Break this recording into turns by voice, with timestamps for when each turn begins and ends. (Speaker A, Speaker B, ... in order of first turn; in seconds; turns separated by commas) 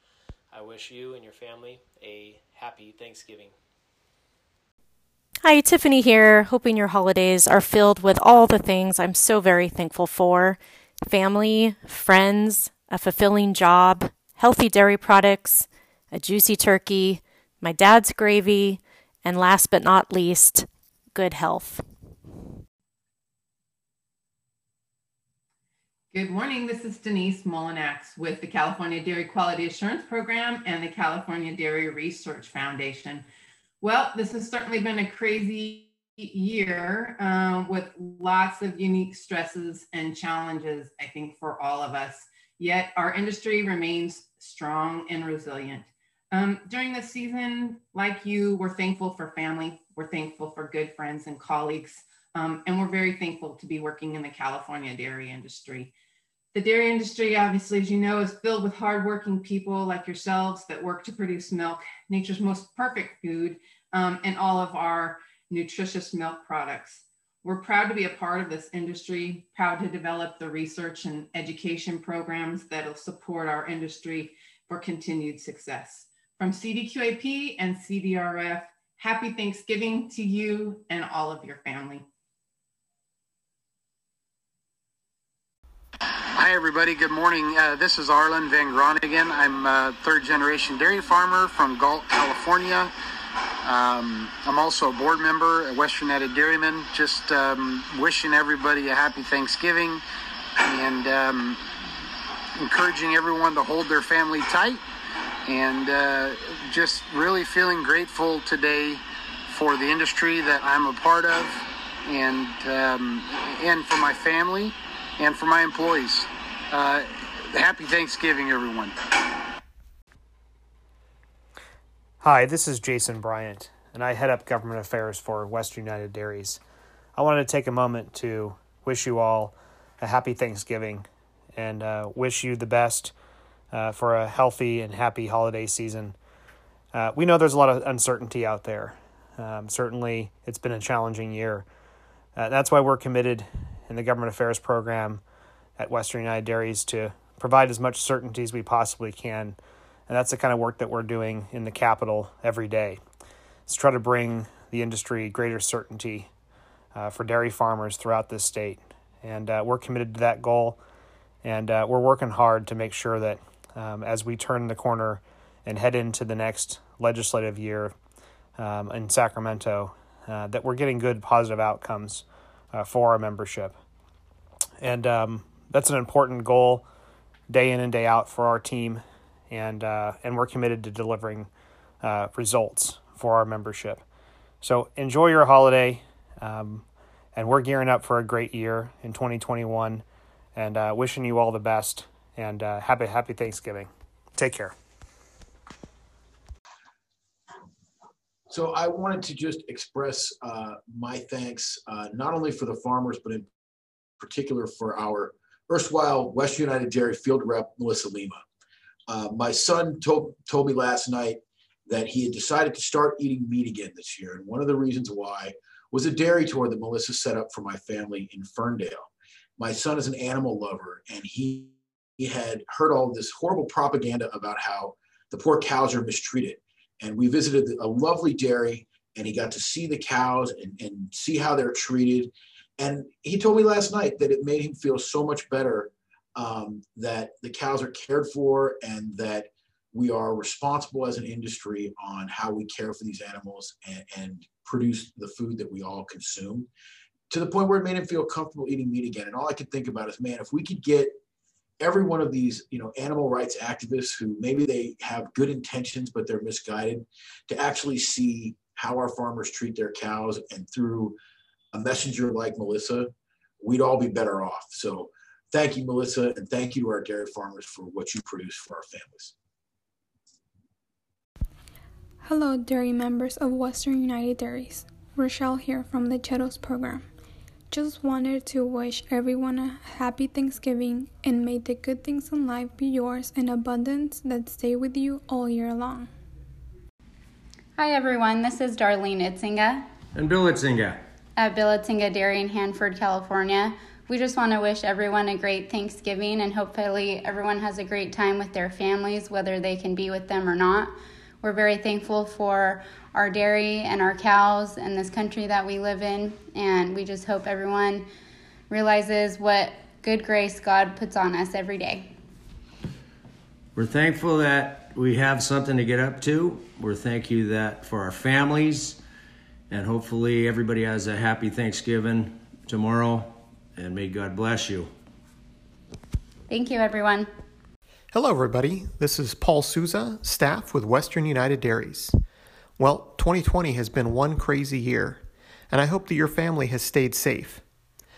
Speaker A: 0.5-3.5, Speaker B: 5.4-21.8, Speaker C: 26.1-33.3, Speaker C: 33.8-55.9, Speaker C: 56.5-82.0, Speaker D: 86.3-92.9, Speaker D: 93.6-100.0, Speaker D: 100.7-101.6, Speaker D: 102.6-104.8, Speaker D: 105.5-118.9, Speaker E: 122.2-126.6, Speaker E: 127.2-133.1, Speaker E: 133.7-136.1, Speaker E: 136.9-141.7, Speaker E: 142.3-145.2, Speaker E: 145.8-153.0, Speaker E: 153.7-156.3, Speaker E: 156.9-160.8, Speaker E: 161.4-167.9, Speaker E: 168.6-173.7, Speaker E: 174.8-176.8, Speaker E: 177.5-181.5, Speaker E: 182.0-184.0, Speaker E: 184.6-190.0, Speaker E: 190.6-194.7, Speaker F: 198.5-203.5, Speaker F: 204.2-208.4, Speaker F: 209.1-246.7, Speaker F: 247.3-251.1, Speaker F: 251.8-261.2, Speaker F: 261.7-263.1, Speaker F: 263.6-269.3, Speaker G: 272.2-277.0, Speaker G: 277.7-286.1, Speaker H: 287.8-289.8, Speaker I: 290.1-291.0, Speaker H: 291.4-308.1, Speaker H: 308.7-312.1, Speaker I: 313.8-319.0, Speaker I: 319.7-324.9, Speaker H: 326.5-327.3, Speaker J: 328.1-332.1, Speaker J: 332.8-337.6